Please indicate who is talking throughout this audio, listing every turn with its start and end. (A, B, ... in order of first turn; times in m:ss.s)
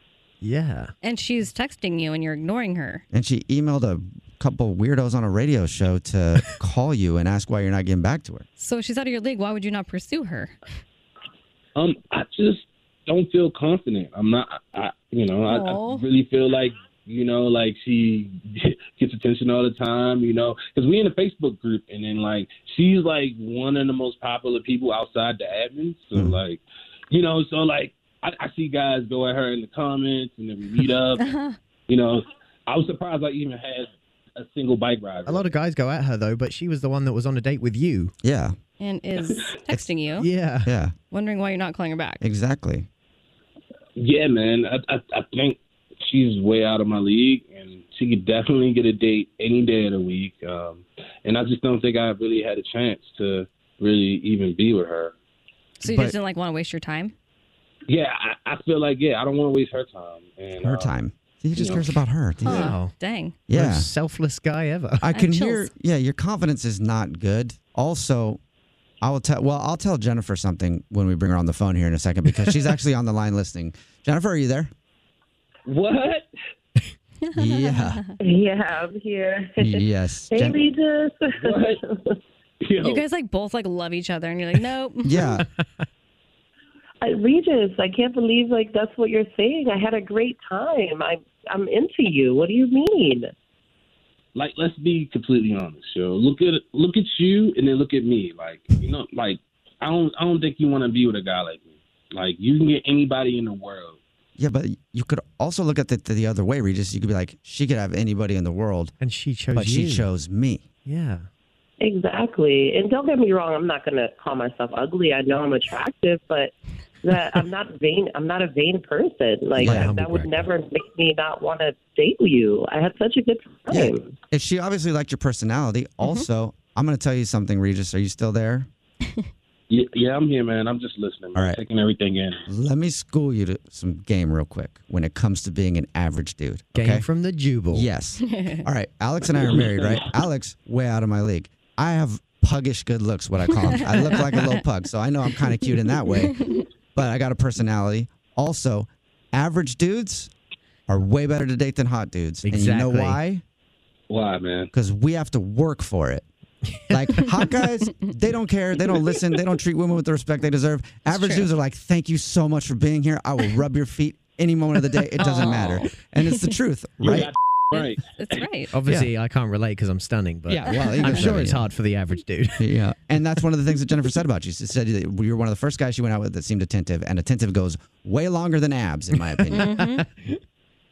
0:00.4-0:00.9 A
0:01.0-0:03.0 B
0:03.1-0:08.4 C
0:08.6-0:10.5 B
0:11.8-0:31.4 D
0:15.5-0:16.0 B
0:31.2-0:31.6 B
0:31.9-0:35.6 D
0:35.2-0:38.1 A
0:38.2-0:38.6 C
0:38.8-0:40.3 B
0:40.1-0:40.7 A
0:40.6-0:40.9 C
0:41.1-0:42.2 B
0:42.2-0:42.9 C
0:44.0-0:55.1 D
0:55.8-0:57.1 B
0:55.8-0:56.2 C
0:57.9-1:00.9 D
1:00.6-1:02.8 C
1:01.5-1:02.0 D
1:02.4-1:03.4 B
1:02.6-1:02.9 A
1:03.5-1:03.9 C
1:03.5-1:05.1 A
1:05.0-1:08.4 C
1:05.1-1:05.7 B
1:09.0-1:14.7 C
1:15.7-1:16.3 D
1:17.3-1:18.1 B
1:17.4-1:18.0 C
1:18.2-1:21.9 E
1:19.6-1:20.6 C
1:21.4-1:21.8 D
1:22.6-1:23.0 D
1:22.8-1:25.2 B
1:25.0-1:25.4 C
1:25.3-1:25.6 A
1:27.0-1:33.3 E
1:34.4-1:44.0 D
1:44.4-1:48.9 C
1:49.0-1:50.1 A
1:49.5-1:50.6 C
1:50.9-1:51.3 A
1:51.8-2:04.1 E
1:59.6-2:00.5 A
1:59.6-1:59.9 C
2:03.7-2:08.7 C
2:06.0-2:06.3 B
2:09.7-2:12.4 D
2:12.5-2:17.1 C
2:16.8-2:17.9 A
2:17.7-2:30.3 C
2:18.2-2:18.6 B
2:19.6-2:20.0 D
2:24.1-2:24.4 B
2:30.9-2:33.4 C
2:32.4-2:33.2 A
2:34.1-2:34.7 D
2:34.7-2:36.2 C
2:36.9-2:37.2 A
2:36.9-2:47.3 C
2:41.2-2:41.5 B
2:45.2-2:45.6 A
2:45.3-2:45.9 B
2:47.0-2:48.5 D
2:48.2-2:48.7 B
2:48.7-2:52.7 A
2:48.8-2:49.1 C
2:50.5-2:51.6 C
2:52.6-2:59.7 C
2:59.5-3:00.4 A
2:59.6-3:00.0 B